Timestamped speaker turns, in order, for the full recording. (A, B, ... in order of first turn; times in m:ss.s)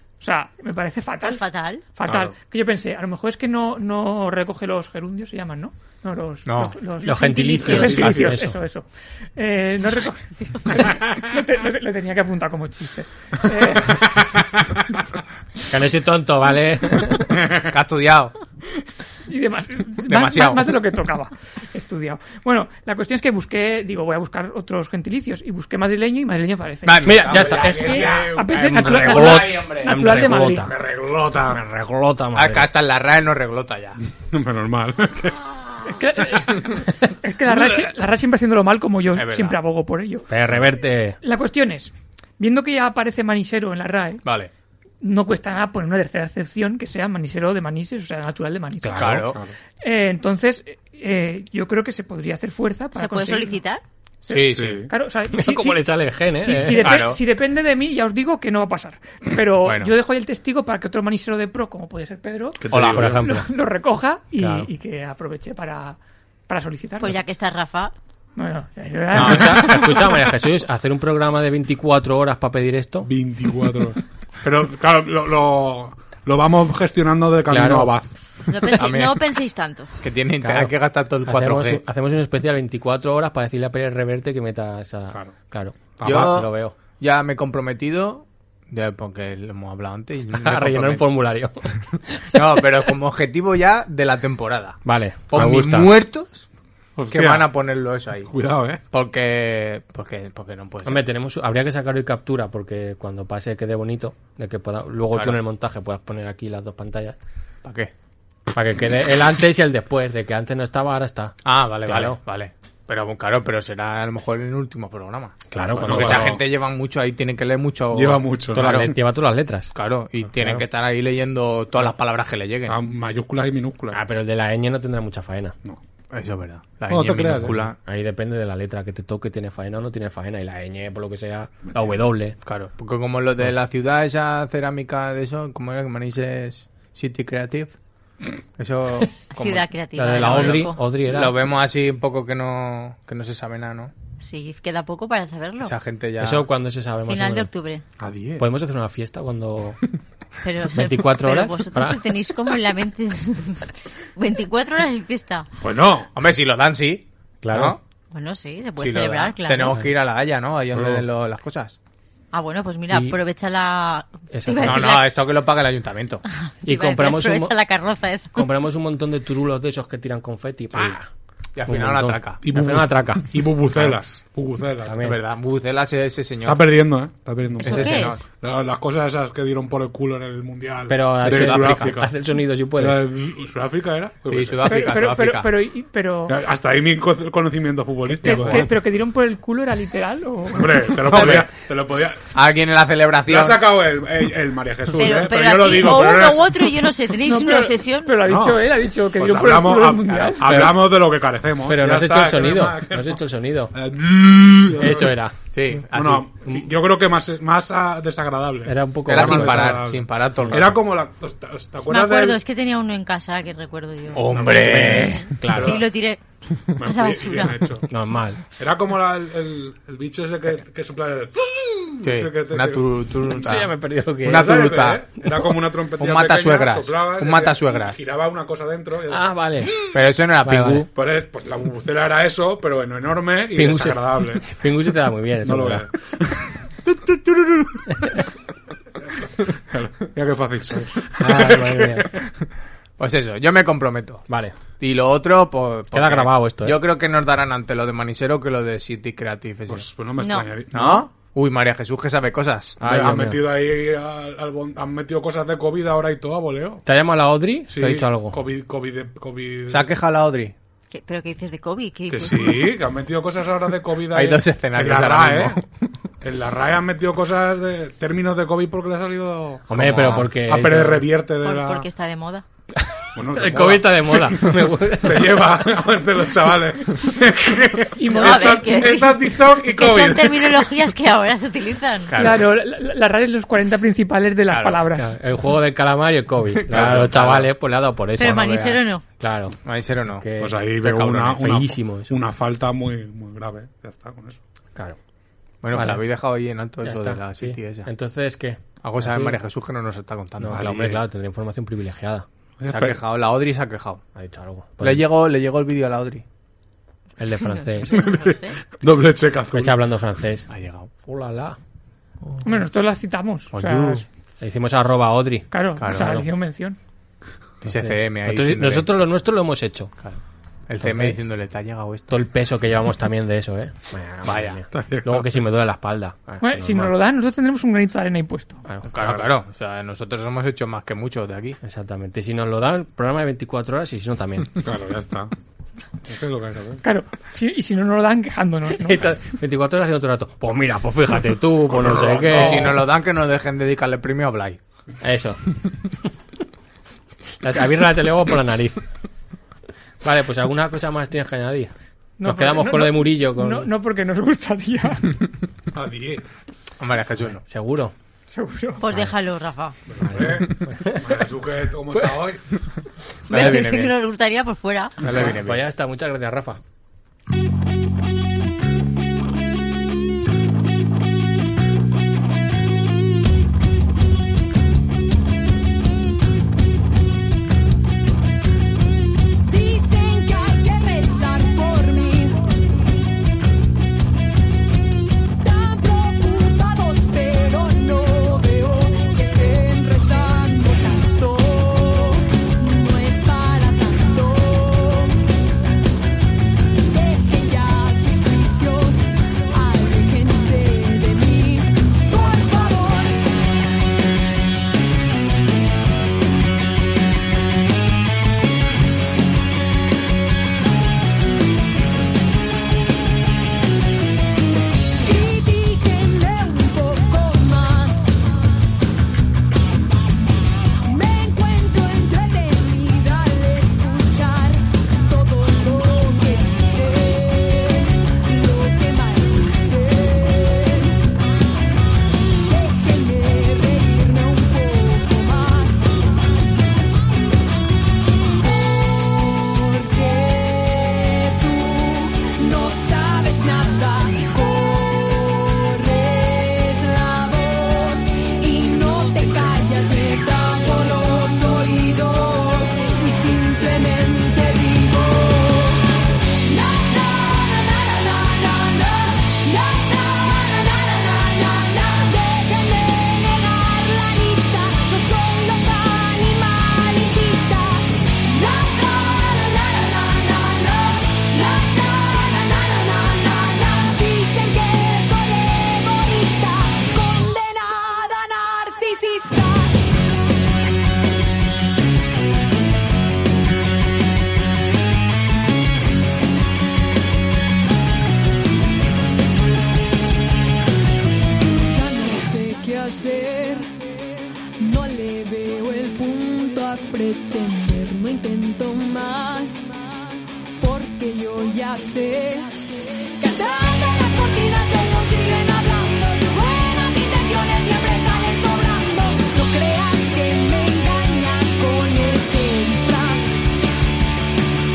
0:00.2-0:14.4 A
0:01.2-0:01.8 B
0:02.0-0:02.3 C
0:06.4-0:06.8 C
0:07.0-0:08.6 D
0:07.2-0:08.1 B
0:15.7-0:17.4 D
0:17.4-0:18.4 C
0:19.3-0:30.7 A
0:20.0-0:20.8 C
0:26.8-0:30.4 C
0:27.0-0:30.7 D
0:27.3-0:28.7 E
0:30.7-0:31.6 E
0:31.5-0:32.7 D
0:32.3-0:34.0 C
0:34.2-0:35.4 E
0:35.9-0:40.3 A
0:39.1-0:39.6 C
0:40.3-0:41.2 D
0:41.2-0:44.2 A
0:44.2-0:44.5 C
0:45.0-0:53.6 A
0:48.8-0:49.4 C
0:49.3-0:49.5 E
0:52.9-0:53.8 B
0:54.3-1:07.2 A
0:54.3-0:54.9 C
0:54.5-0:54.9 E
0:55.3-0:56.9 D
0:56.8-0:57.2 C
0:59.6-0:59.9 C
1:02.6-1:03.2 E
1:02.7-1:03.2 C
1:02.7-1:03.5 D
1:04.4-1:04.7 D
1:07.0-1:07.9 B
1:08.4-1:10.0 A
1:09.1-1:13.1 D
1:09.2-1:09.7 C
1:13.0-1:18.1 E
1:17.5-1:17.9 D
1:18.5-1:20.0 B
1:18.7-1:19.2 C
1:20.0-1:21.8 C
1:20.4-1:26.7 D
1:26.0-1:26.4 E
1:26.0-1:31.1 C
1:30.3-1:32.6 D
1:32.3-1:36.4 C
1:34.8-1:35.9 D
1:37.0-1:37.5 E
1:37.1-1:38.3 C
1:38.3-1:38.8 E
1:38.9-1:41.0 C
1:40.8-1:47.2 D
1:45.1-1:45.4 C
1:47.6-1:47.9 C
1:48.5-1:52.2 D
1:51.4-1:58.9 C
1:55.5-1:56.4 D
1:55.8-1:56.4 E
1:57.9-1:58.9 E
1:58.5-1:59.7 D
1:59.7-2:02.8 C
2:00.4-2:00.6 D
2:02.7-2:04.0 E
2:03.9-2:05.5 D
2:06.1-2:07.8 C
2:06.9-2:07.7 E
2:07.8-2:12.4 D
2:12.4-2:17.7 C
2:18.6-2:23.9 C
2:19.3-2:20.8 B
2:20.0-2:21.3 D
2:24.2-2:25.7 B
2:25.6-2:26.5 C
2:26.2-2:27.5 D
2:27.1-2:27.8 B
2:28.0-2:28.4 E
2:28.4-2:29.8 D
2:30.4-2:35.5 B
2:30.7-2:32.0 D
2:35.6-2:36.1 E
2:36.1-2:37.8 C
2:37.4-2:37.8 D
2:38.1-2:39.8 B
2:38.8-2:41.8 C
2:40.7-2:41.0 E
2:42.3-2:45.1 B
2:42.9-2:43.2 D
2:44.3-2:44.9 D
2:44.6-2:46.2 C
2:46.2-2:48.5 B
2:46.6-2:47.5 D
2:48.3-2:51.1 D
2:51.5-2:52.4 C
2:51.7-2:53.4 D
2:52.4-2:55.0 E
2:54.8-2:55.2 D
2:55.0-2:56.8 C
2:56.4-3:02.1 E
2:57.6-2:58.2 C
2:57.6-2:58.2 B
3:00.9-3:03.0 D
3:01.2-3:01.9 C
3:02.8-3:04.9 E
3:04.2-3:05.5 C
3:04.6-3:06.4 A
3:06.3-3:08.7 E
3:08.2-3:11.0 A
3:08.2-3:08.7 C
3:10.5-3:12.3 E
3:11.1-3:11.5 C
3:12.3-3:13.6 C
3:13.2-3:16.6 E
3:14.9-3:18.2 B
3:17.2-3:20.5 A
3:18.2-3:18.6 E
3:19.1-3:25.2 E
3:20.1-3:20.7 C
3:21.6-3:23.7 D
3:24.8-3:25.3 D
3:25.5-3:26.3 C
3:25.9-3:32.4 E
3:28.6-3:29.8 D
3:29.0-3:30.8 C
3:30.4-3:30.8 D
3:31.9-3:36.2 B
3:34.1-3:35.3 C
3:34.3-3:35.9 E
3:34.6-3:35.8 D
3:36.7-3:37.6 B
3:36.8-3:37.9 E
3:37.9-3:38.4 D
3:38.5-3:42.9 E
3:42.0-3:45.1 C
3:43.4-3:44.6 D
3:44.2-3:49.2 E
3:46.0-3:48.0 C
3:49.1-3:49.9 D
3:49.9-3:50.9 C
3:50.4-3:50.8 D
3:50.9-3:54.5 E
3:53.5-3:55.8 D
3:55.4-3:57.6 E
3:59.6-4:02.1 E
4:01.2-4:02.1 D
4:03.0-4:04.2 C
4:04.3-4:04.5 D
4:04.8-4:09.8 C
4:05.9-4:06.8 D
4:09.7-4:11.1 E
4:10.2-4:10.5 B
4:10.7-4:12.8 C
4:12.8-4:13.4 D
4:12.8-4:16.8 E
4:16.8-4:18.4 D
4:17.7-4:19.9 E
4:19.7-4:20.5 C
4:20.9-4:22.8 B
4:22.1-4:25.6 E
4:24.1-4:25.6 C
4:26.2-4:31.9 E
4:29.7-4:31.1 D
4:29.7-4:30.3 C
4:31.4-4:32.4 B
4:33.2-4:40.7 E
4:33.3-4:35.4 D
4:38.0-4:38.7 A
4:38.1-4:42.1 B
4:42.1-4:42.5 C
4:42.2-4:45.1 A
4:44.5-4:44.8 C
4:44.9-4:49.6 D
4:46.5-4:47.5 C
4:46.7-4:47.0 E
4:48.2-4:49.0 B
4:49.6-4:50.2 C
4:50.2-4:52.2 D
4:50.4-4:54.4 E
4:55.6-4:57.9 C
4:55.7-4:56.0 D
4:56.8-4:59.4 D
4:58.8-5:00.9 C
5:00.4-5:02.2 D
5:00.5-5:01.0 E
5:02.6-5:03.0 E
5:02.6-5:04.0 C
5:04.1-5:05.0 D
5:04.8-5:06.2 C
5:07.2-5:08.1 D
5:07.6-5:08.6 B
5:07.9-5:09.8 E
5:09.5-5:10.5 D
5:10.5-5:10.9 C
5:11.0-5:11.6 D
5:12.2-5:12.6 C
5:12.4-5:14.0 A
5:13.5-5:14.0 C
5:14.4-5:16.3 D
5:15.5-5:16.8 A
5:15.8-5:16.2 C
5:17.6-5:18.9 C
5:17.6-5:19.9 D
5:20.0-5:22.2 C
5:20.8-5:21.2 D
5:22.1-5:26.9 D
5:24.2-5:24.6 C
5:24.7-5:25.4 E
5:26.4-5:28.6 A
5:28.7-5:29.2 D
5:28.8-5:31.6 C
5:31.6-5:34.5 D
5:34.6-5:35.3 E
5:36.0-5:36.8 E
5:36.8-5:39.0 A
5:38.7-5:42.8 D
5:41.7-5:42.8 E
5:42.3-5:44.6 C
5:45.0-5:45.4 D
5:47.4-5:48.8 D
5:50.0-5:51.7 D
5:52.2-5:55.2 A
5:52.2-5:53.7 D
5:55.7-5:56.2 E
5:56.8-5:57.4 C
5:57.4-5:57.9 D
5:58.3-5:58.8 A
5:58.8-5:59.8 B
5:59.9-6:02.4 E
6:00.0-6:01.0 D
6:03.3-6:05.0 B
6:03.3-6:03.9 C
6:05.0-6:05.6 C
6:05.1-6:06.6 D
6:19.5-6:22.4 F
6:25.4-6:35.2 F
6:36.9-6:43.2 F
6:55.0-6:58.2 F
7:00.8-7:11.0 F
7:12.5-7:15.9 F
7:18.4-7:59.9 F
8:11.6-8:13.7 F
8:14.6-8:19.8 F
8:20.6-8:22.6 F
8:23.2-8:33.2 F